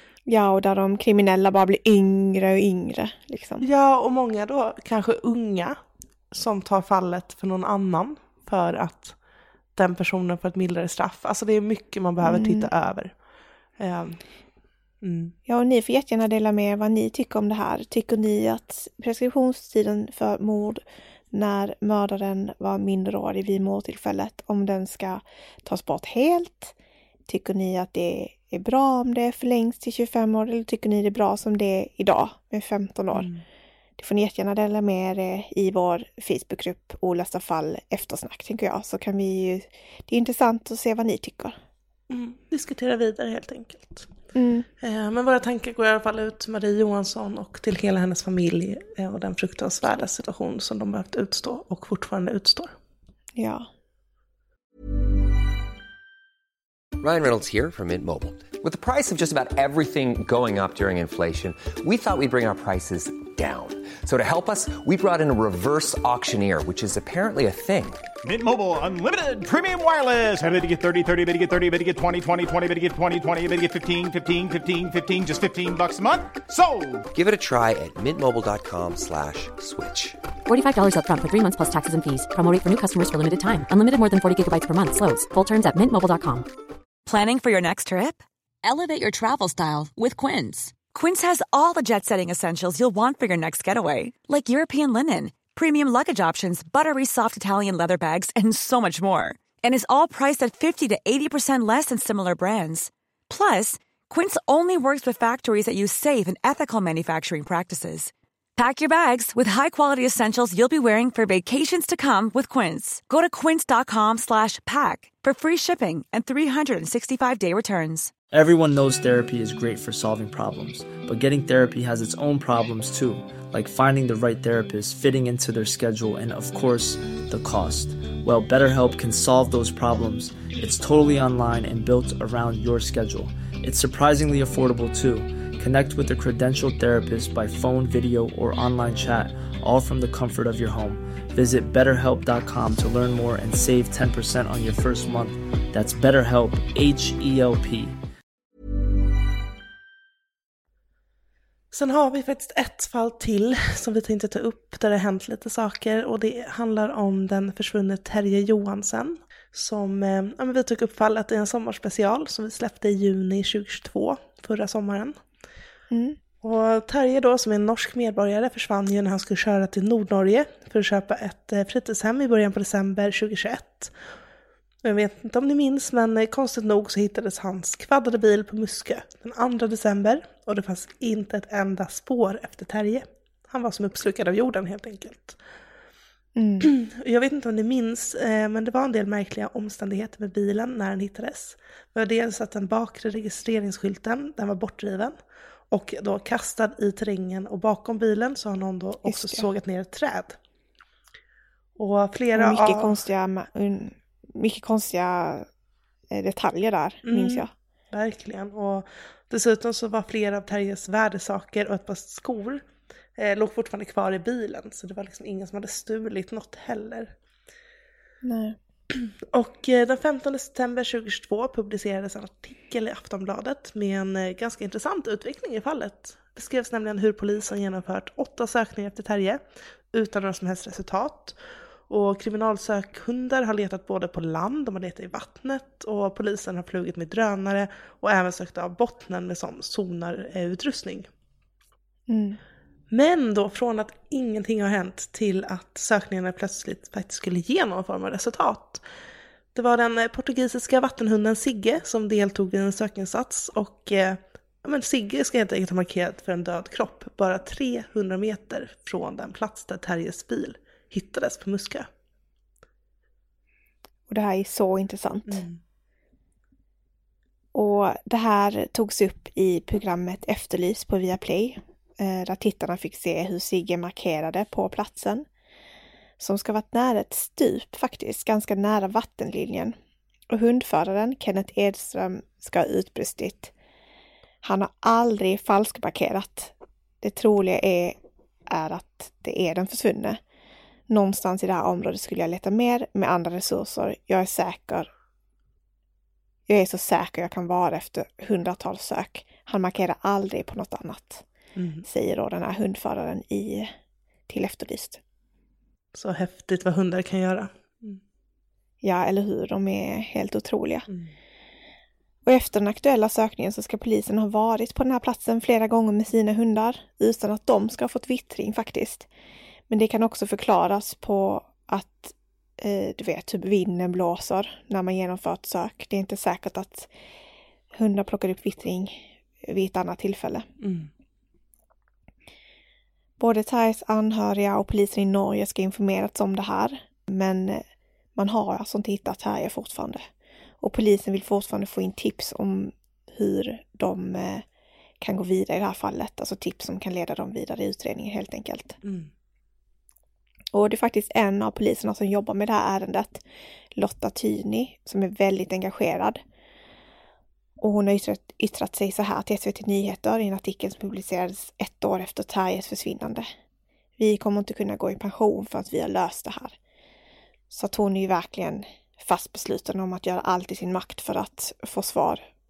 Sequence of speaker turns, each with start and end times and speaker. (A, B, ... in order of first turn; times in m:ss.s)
0:00.3-0:03.6 A
0:03.6-0:05.8 B
0:06.3-0:09.2 B
0:09.8-0:13.1 B
0:12.2-0:12.7 A
0:13.8-0:14.2 B
0:15.0-0:15.3 B
0:15.4-0:26.7 A
0:27.3-0:33.3 A
0:33.1-0:33.4 B
0:34.0-0:41.6 A
0:42.1-0:44.1 B
0:44.4-0:44.7 A
0:44.8-0:52.7 B
0:53.4-0:53.7 A
0:57.0-1:08.1 C
1:08.2-1:17.0 D
1:17.1-1:20.2 C
1:20.4-1:26.5 E
1:27.1-1:58.1 F
1:58.3-2:28.0 G
2:31.7-2:45.2 B
2:45.9-2:46.2 A
2:46.4-2:53.9 B
2:54.8-3:05.4 B
3:06.4-3:06.7 A
3:06.6-3:15.2 B
3:15.7-3:20.4 B
3:19.0-3:19.5 A
3:21.8-3:23.0 B
3:22.3-3:25.4 A
3:26.1-3:27.5 A
3:27.0-3:32.6 B
3:33.2-3:37.1 B
3:38.2-3:38.6 A
3:38.9-3:51.4 B
3:51.9-4:01.1 B
4:02.1-4:02.4 A
4:02.9-4:08.8 B
4:09.5-4:21.9 B
4:24.1-4:25.4 A
4:25.3-4:25.6 B
4:27.5-4:35.2 A
4:36.2-4:39.7 A
4:40.3-4:43.5 A
4:44.4-4:48.0 A
4:48.5-4:50.2 A
4:50.9-4:54.9 A
4:56.5-5:01.2 A
5:01.6-5:01.9 B
5:01.8-5:03.7 A
5:04.3-5:05.0 A
5:05.9-5:08.0 B
5:08.8-5:10.9 A
5:10.9-5:11.1 B
5:12.2-5:19.1 A
5:19.7-5:26.9 A
5:27.7-5:30.5 A
5:30.6-5:30.9 B
5:33.2-5:37.6 A
5:38.2-5:40.0 A
5:40.6-5:44.4 A
5:45.0-5:48.8 A
5:48.8-5:49.1 B
5:50.5-5:53.2 A
5:53.8-5:56.2 A
5:57.6-6:03.3 A
6:04.0-6:06.6 A
6:07.5-6:12.2 A